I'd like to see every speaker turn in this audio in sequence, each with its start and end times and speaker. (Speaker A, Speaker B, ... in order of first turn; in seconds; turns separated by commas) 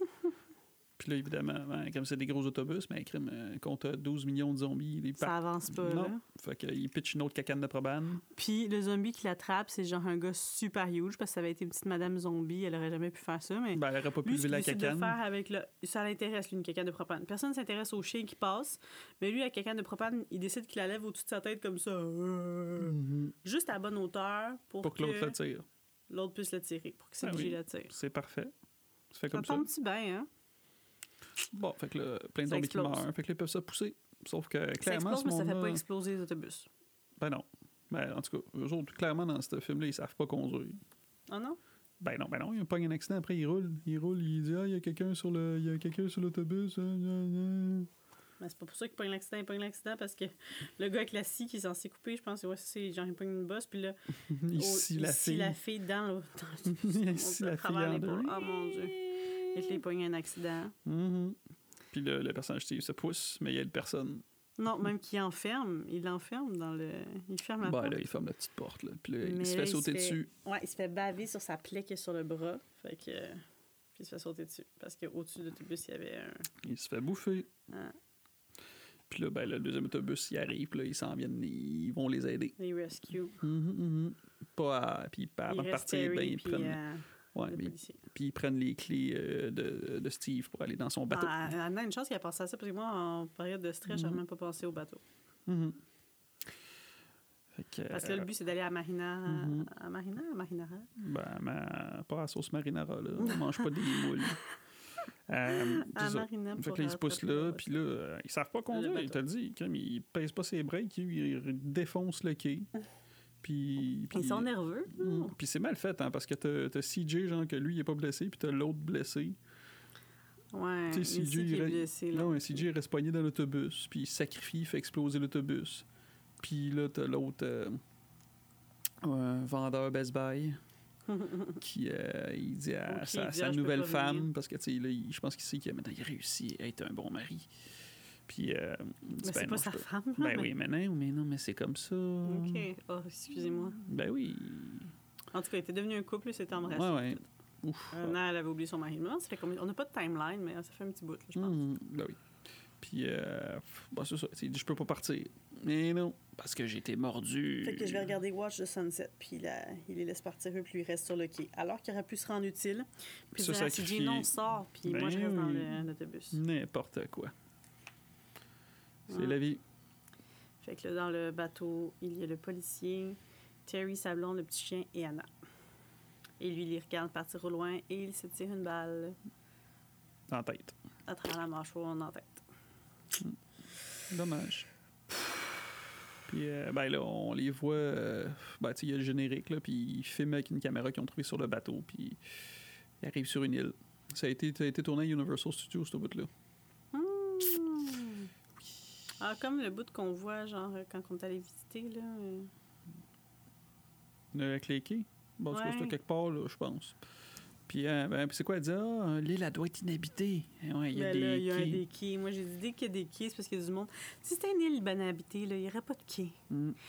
Speaker A: 1.0-8.2, Speaker B: 5.2-6.2, Speaker B: 8.3-25.4, Speaker A: 13.7-15.2, Speaker A: 22.8-23.3, Speaker A: 24.8-25.7, Speaker B: 26.1-27.9, Speaker A: 27.2-28.5, Speaker A: 29.1-29.6, Speaker B: 29.3-30.3, Speaker A: 31.5-35.8, Speaker B: 32.5-33.1, Speaker B: 34.8-36.7, Speaker A: 37.2-40.8, Speaker B: 41.3-41.6, Speaker A: 42.0-47.9, Speaker B: 48.4-54.0, Speaker A: 54.3-55.6, Speaker B: 54.5-60.8, Speaker A: 56.7-59.8, Speaker A: 60.9-61.4, Speaker A: 61.9-64.2, Speaker B: 64.6-68.0, Speaker A: 67.6-70.3, Speaker B: 69.2-73.4, Speaker B: 74.0-76.5, Speaker A: 76.6-77.5, Speaker B: 77.7-78.0, Speaker A: 79.1-82.6, Speaker B: 82.6-83.4, Speaker A: 83.4-86.8, Speaker B: 85.5-88.0, Speaker A: 87.3-91.5, Speaker B: 91.1-95.0, Speaker A: 93.9-94.2, Speaker A: 95.5-95.8, Speaker A: 97.5-98.3, Speaker B: 97.9-100.9, Speaker A: 99.3-99.7, Speaker A: 101.0-104.4, Speaker B: 103.2-104.3, Speaker A: 105.3-112.7, Speaker B: 105.5-107.8, Speaker B: 108.7-109.2, Speaker A: 113.4-119.4, Speaker B: 114.1-115.3, Speaker B: 120.5-122.7, Speaker A: 120.9-125.9, Speaker A: 126.4-127.8, Speaker A: 129.0-130.6, Speaker B: 131.1-131.6, Speaker A: 131.6-137.5, Speaker B: 132.9-134.3, Speaker A: 138.3-142.7, Speaker B: 139.2-140.5, Speaker B: 142.2-143.8, Speaker A: 143.8-144.9, Speaker B: 145.3-147.2, Speaker A: 146.7-148.2, Speaker B: 147.9-151.6, Speaker A: 151.4-152.2, Speaker A: 152.8-158.2, Speaker B: 157.6-166.4, Speaker A: 163.4-164.3, Speaker A: 164.8-167.3, Speaker B: 169.1-169.4, Speaker A: 169.1-169.6, Speaker B: 170.6-175.3, Speaker B: 176.4-179.2, Speaker A: 180.3-180.8, Speaker B: 181.1-182.4, Speaker A: 184.1-185.7, Speaker A: 186.3-192.2, Speaker A: 193.0-196.3, Speaker B: 196.9-198.3, Speaker B: 199.2-202.5, Speaker A: 204.3-207.0, Speaker B: 205.5-206.0, Speaker A: 207.7-211.8, Speaker B: 210.9-216.4, Speaker A: 216.5-216.8